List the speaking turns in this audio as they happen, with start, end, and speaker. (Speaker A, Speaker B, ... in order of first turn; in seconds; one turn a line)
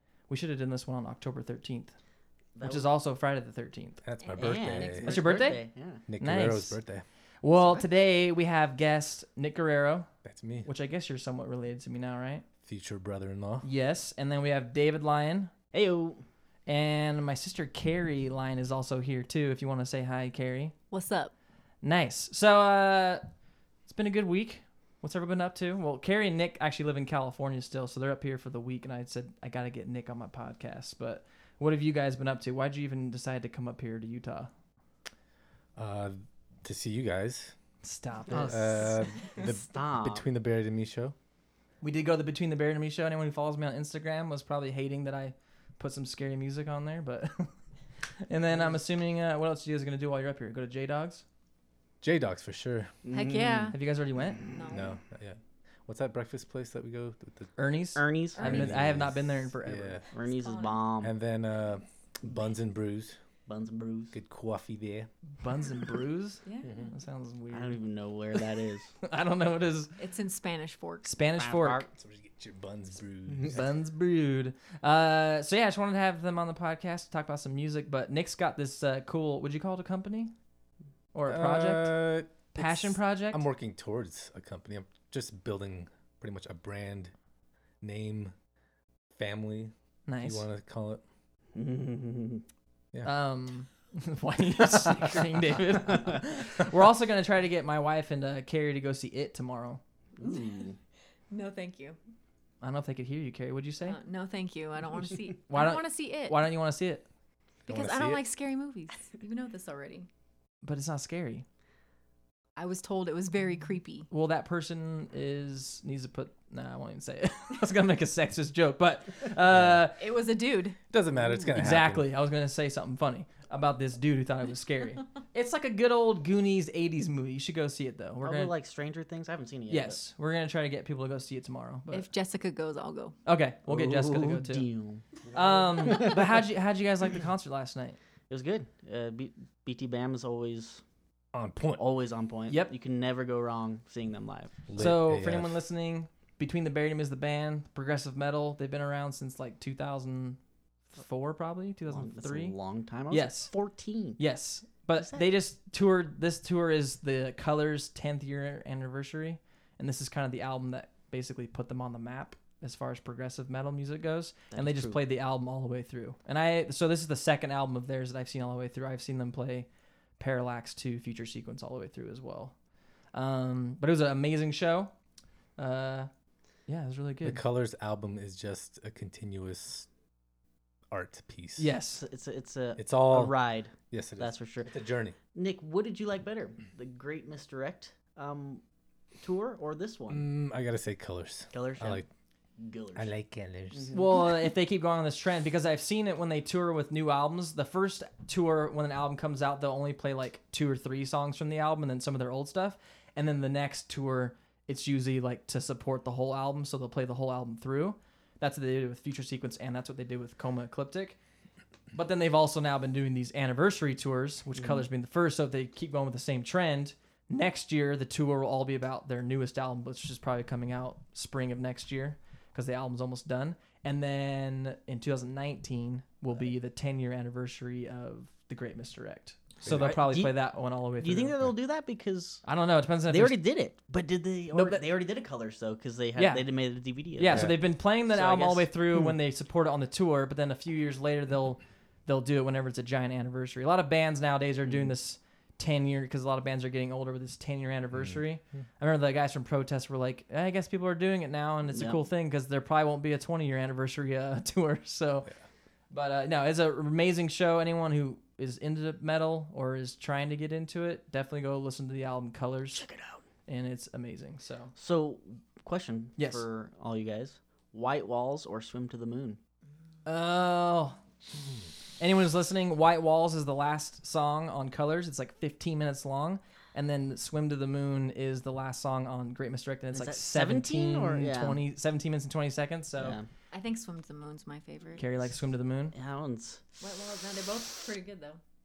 Speaker A: 0.3-1.9
Speaker B: 2.5-2.9
Speaker A: 2.6-4.0
Speaker C: 4.0-5.2
Speaker D: 4.2-5.6
Speaker B: 4.4-6.0
Speaker A: 5.1-5.7
Speaker C: 6.1-7.0
Speaker A: 6.2-6.8
Speaker A: 7.4-10.1
Speaker D: 7.5-7.9
Speaker C: 10.2-10.7
Speaker A: 10.7-12.4
Speaker C: 12.6-13.7
Speaker A: 13.6-15.5
Speaker B: 15.7-16.2
Speaker A: 16.7-20.8
Speaker D: 20.9-21.3
Speaker A: 21.8-23.3
Speaker A: 23.9-34.5
Speaker C: 35.8-37.6
Speaker A: 37.8-38.8
Speaker C: 38.3-41.1
Speaker B: 38.3-40.3
Speaker A: 41.8-47.5
Speaker A: 48.2-51.2
Speaker C: 52.0-52.9
Speaker B: 53.0-53.8
Speaker D: 53.1-53.8
Speaker A: 53.7-54.4
Speaker B: 54.3-54.8
Speaker D: 54.5-55.0
Speaker C: 54.7-57.5
Speaker A: 57.6-60.0
Speaker B: 58.0-58.8
Speaker D: 58.4-58.6
Speaker C: 58.4-60.1
Speaker B: 60.1-61.1
Speaker D: 60.3-60.8
Speaker C: 61.0-63.2
Speaker B: 63.5-64.2
Speaker C: 64.1-65.1
Speaker A: 65.4-67.8
Speaker D: 66.4-66.9
Speaker B: 67.5-68.9
Speaker A: 68.3-69.9
Speaker D: 70.0-71.2
Speaker A: 71.0-71.8
Speaker B: 71.4-71.9
Speaker C: 72.0-73.6
Speaker B: 73.3-73.6
Speaker A: 73.4-80.3
Speaker A: 81.1-82.0
Speaker C: 81.3-87.1
Speaker A: 82.5-83.4
Speaker C: 87.8-88.3
Speaker C: 89.2-91.0
Speaker A: 90.1-90.5
Speaker B: 91.5-92.4
Speaker A: 93.0-99.8
Speaker B: 100.2-100.8
Speaker D: 100.2-100.5
Speaker D: 101.3-102.0
Speaker A: 102.6-104.0
Speaker D: 103.8-106.5
Speaker A: 105.5-107.1
Speaker D: 107.7-110.1
Speaker C: 107.7-108.2
Speaker A: 110.6-111.5
Speaker D: 112.6-114.1
Speaker A: 114.1-120.0
Speaker C: 119.5-119.9
Speaker D: 120.0-120.8
Speaker C: 120.9-122.1
Speaker B: 121.2-121.6
Speaker A: 121.5-128.5
Speaker B: 128.2-130.0
Speaker A: 129.7-132.1
Speaker D: 131.9-133.2
Speaker A: 133.3-134.7
Speaker B: 133.7-135.1
Speaker A: 135.3-138.0
Speaker B: 135.7-136.4
Speaker B: 138.3-140.8
Speaker C: 141.3-141.8
Speaker B: 141.8-144.6
Speaker C: 144.7-145.6
Speaker A: 144.8-150.4
Speaker A: 150.9-152.6
Speaker B: 151.9-154.2
Speaker A: 153.1-153.5
Speaker A: 154.2-172.6
Speaker B: 155.0-155.3
Speaker B: 164.5-165.0
Speaker A: 173.1-174.9
Speaker A: 175.6-176.1
Speaker A: 176.7-177.4
Speaker C: 177.2-179.9
Speaker C: 180.9-181.7
Speaker A: 181.6-182.1
Speaker B: 182.0-184.7
Speaker C: 182.8-185.2
Speaker B: 185.3-188.6
Speaker B: 189.2-190.2
Speaker C: 190.1-192.1
Speaker B: 191.5-192.0
Speaker B: 192.6-193.1
Speaker C: 192.9-193.9
Speaker B: 193.7-194.0
Speaker A: 193.9-211.2
Speaker A: 211.9-231.4
Speaker C: 229.6-230.0
Speaker B: 229.7-230.4
Speaker B: 231.0-232.4
Speaker A: 232.4-233.4
Speaker B: 233.1-239.1
Speaker A: 234.5-234.8
Speaker A: 236.2-236.5
Speaker A: 237.2-255.3
Speaker C: 237.3-237.6
Speaker C: 247.9-248.2
Speaker B: 251.7-252.0
Speaker A: 255.9-262.9
Speaker B: 262.7-263.2
Speaker A: 263.5-264.7
Speaker B: 264.8-269.4
Speaker A: 266.2-266.4
Speaker A: 270.1-271.0
Speaker A: 272.0-283.2
Speaker B: 279.9-281.6
Speaker B: 283.0-283.3
Speaker D: 283.5-285.1
Speaker A: 285.0-285.9
Speaker B: 285.9-286.6
Speaker D: 286.8-288.4